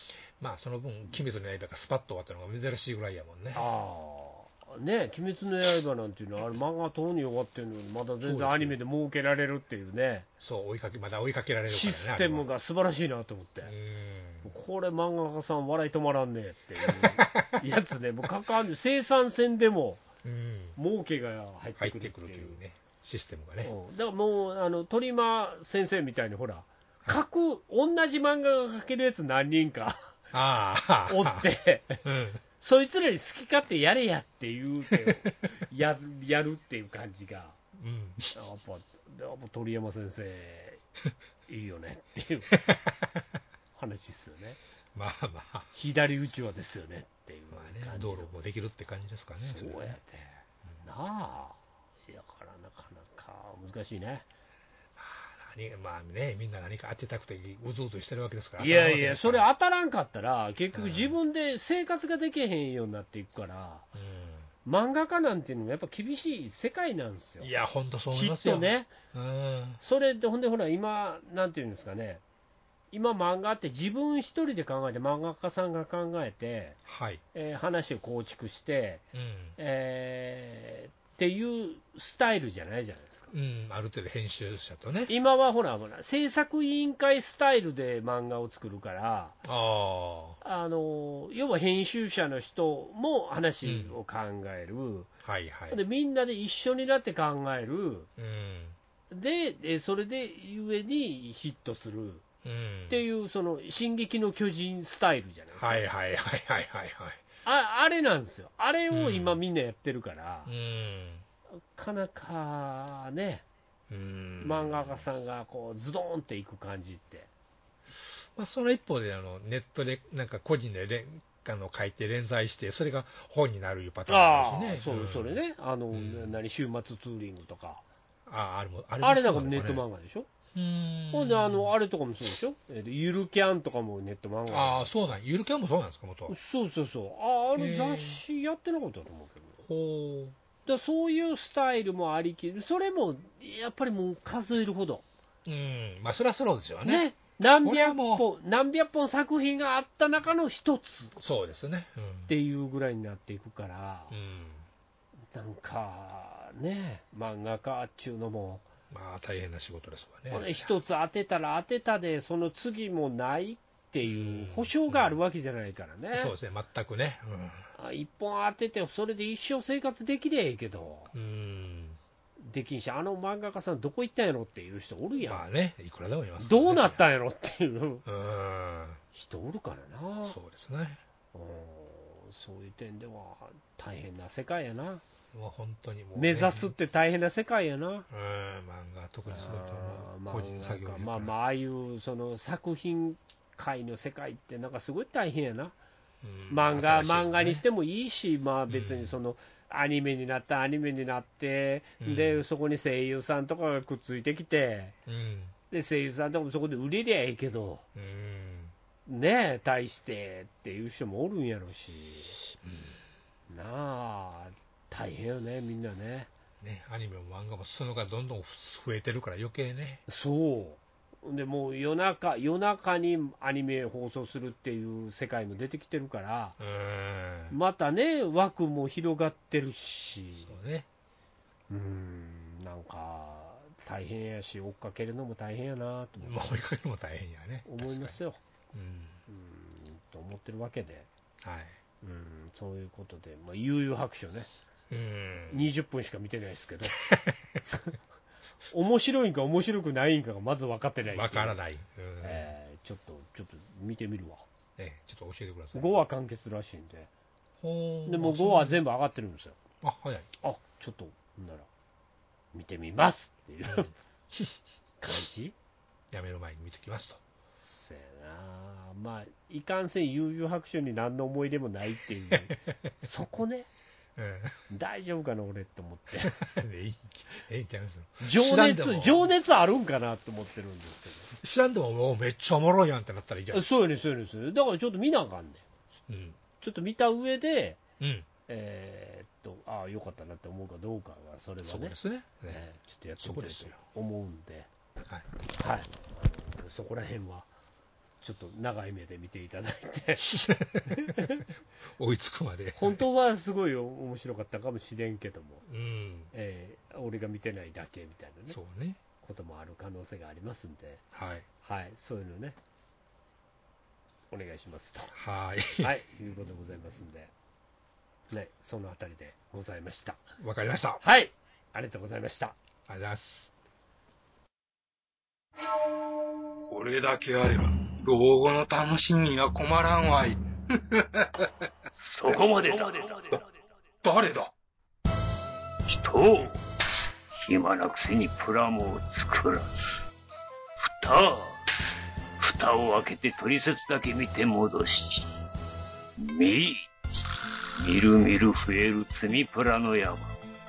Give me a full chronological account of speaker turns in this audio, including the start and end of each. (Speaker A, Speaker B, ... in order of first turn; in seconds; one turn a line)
Speaker A: 0.4-3.7
Speaker B: 3.5-10.3
Speaker A: 8.2-8.8
Speaker A: 10.4-12.5
Speaker B: 11.7-13.7
Speaker A: 13.6-14.5
Speaker B: 14.4-20.0
Speaker A: 16.8-17.6
Speaker A: 20.2-20.8
Speaker B: 20.8-22.6
Speaker A: 21.8-23.7
Speaker B: 23.6-30.1
Speaker A: 30.3-31.5
Speaker B: 31.1-32.0
Speaker A: 32.0-32.4
Speaker B: 32.6-37.6
Speaker A: 37.8-38.3
Speaker B: 38.3-40.8
Speaker B: 41.5-42.5
Speaker A: 42.5-43.2
Speaker B: 43.8-44.6
Speaker A: 45.0-45.7
Speaker B: 45.7-48.3
Speaker A: 47.5-50.0
Speaker B: 49.4-50.3
Speaker B: 50.8-54.3
Speaker A: 55.0-59.5
Speaker B: 58.6-63.9
Speaker A: 60.7-61.1
Speaker A: 64.0-64.5
Speaker B: 64.7-67.5
Speaker A: 67.4-69.8
Speaker B: 68.1-68.9
Speaker B: 69.8-72.2
Speaker B: 72.9-76.8
Speaker A: 76.9-77.2
Speaker B: 77.3-79.0
Speaker A: 79.1-79.6
Speaker B: 79.6-83.3
Speaker A: 83.3-85.1
Speaker B: 85.1-89.4
Speaker A: 89.4-90.4
Speaker B: 90.4-95.1
Speaker A: 93.6-93.9
Speaker A: 95.2-95.8
Speaker B: 95.7-98.1
Speaker A: 98.2-98.8
Speaker B: 99.1-102.2
Speaker A: 102.4-103.0
Speaker B: 102.9-105.8
Speaker A: 105.6-107.2
Speaker B: 107.5-110.5
Speaker A: 108.9-109.4
Speaker A: 110.5-111.2
Speaker B: 111.7-113.5
Speaker A: 113.9-115.0
Speaker B: 114.4-117.3
Speaker A: 118.4-125.4
Speaker B: 124.1-127.8
Speaker A: 125.9-126.4
Speaker A: 128.3-129.8
Speaker B: 129.0-130.3
Speaker A: 130.5-131.7
Speaker B: 131.1-134.8
Speaker A: 134.5-136.3
Speaker B: 136.3-139.6
Speaker A: 137.6-138.2
Speaker A: 139.7-140.4
Speaker B: 140.7-145.1
Speaker A: 145.5-147.1
Speaker B: 146.8-151.2
Speaker A: 147.6-148.2
Speaker A: 151.2-152.3
Speaker B: 152.3-154.2
Speaker A: 154.1-154.7
Speaker B: 155.3-158.7
Speaker A: 158.9-160.7
Speaker B: 160.3-166.3
Speaker A: 164.1-165.2
Speaker A: 166.1-167.7
Speaker B: 167.8-171.1
Speaker A: 171.1-172.0
Speaker B: 172.4-175.5
Speaker A: 175.2-177.0
Speaker B: 176.4-178.0
Speaker A: 178.1-179.0
Speaker B: 179.1-180.4
Speaker A: 180.3-181.0
Speaker B: 181.3-185.0
Speaker A: 185.3-186.8
Speaker B: 186.2-188.1
Speaker A: 188.1-191.3
Speaker B: 189.3-195.7
Speaker A: 196.2-197.6
Speaker B: 196.5-205.0
Speaker A: 198.7-199.1
Speaker A: 202.0-202.4
Speaker A: 205.1-205.5
Speaker B: 205.7-207.8
Speaker A: 207.9-208.7
Speaker B: 209.1-212.4
Speaker A: 212.6-213.0
Speaker B: 213.5-216.3
Speaker A: 216.6-220.0
Speaker B: 220.1-226.6
Speaker A: 226.6-227.6
Speaker B: 227.5-230.5
Speaker A: 230.4-230.9
Speaker B: 231.7-236.6
Speaker A: 236.2-238.2
Speaker B: 237.7-238.4
Speaker A: 238.7-239.2
Speaker B: 239.3-241.1
Speaker A: 241.4-241.8
Speaker B: 242.0-244.5
Speaker A: 244.9-245.7
Speaker B: 245.5-247.0
Speaker A: 246.9-247.6
Speaker B: 248.7-251.6
Speaker A: 251.1-252.5
Speaker B: 252.2-254.4
Speaker A: 254.8-256.0
Speaker B: 255.7-257.1
Speaker A: 257.6-258.8
Speaker B: 258.1-259.6
Speaker A: 259.8-260.3
Speaker B: 260.4-261.7
Speaker B: 262.5-263.9
Speaker A: 263.7-264.5
Speaker B: 265.0-265.6
Speaker A: 266.1-267.2
Speaker B: 267.6-273.7
Speaker A: 274.2-274.6
Speaker B: 274.7-276.4
Speaker A: 276.2-279.3
Speaker B: 278.2-281.3
Speaker A: 281.3-283.7
Speaker B: 283.5-285.6
Speaker A: 286.1-286.4
Speaker B: 286.6-287.8
Speaker A: 288.0-288.3
Speaker B: 288.5-292.0
Speaker A: 291.6-292.6
Speaker B: 292.5-294.7
Speaker A: 293.2-293.8
Speaker B: 295.6-297.5
Speaker B: 298.2-301.4
Speaker A: 300.3-301.3
Speaker A: 302.0-303.0
Speaker B: 302.8-305.6
Speaker A: 305.7-306.3
Speaker B: 306.3-308.6
Speaker A: 308.5-309.0
Speaker B: 309.2-311.0
Speaker A: 311.1-311.5
Speaker B: 311.6-312.6
Speaker B: 314.3-315.1
Speaker A: 315.1-316.0
Speaker B: 315.8-317.3
Speaker B: 318.3-320.2
Speaker A: 320.4-321.0
Speaker B: 321.0-322.6
Speaker A: 322.9-323.5
Speaker C: 326.7-331.4
Speaker D: 332.1-333.4
Speaker C: 332.3-333.4
Speaker C: 334.0-334.5
Speaker D: 335.9-336.6
Speaker D: 337.4-339.7
Speaker D: 340.9-341.6
Speaker D: 342.4-345.3
Speaker D: 346.2-346.9
Speaker D: 347.8-350.4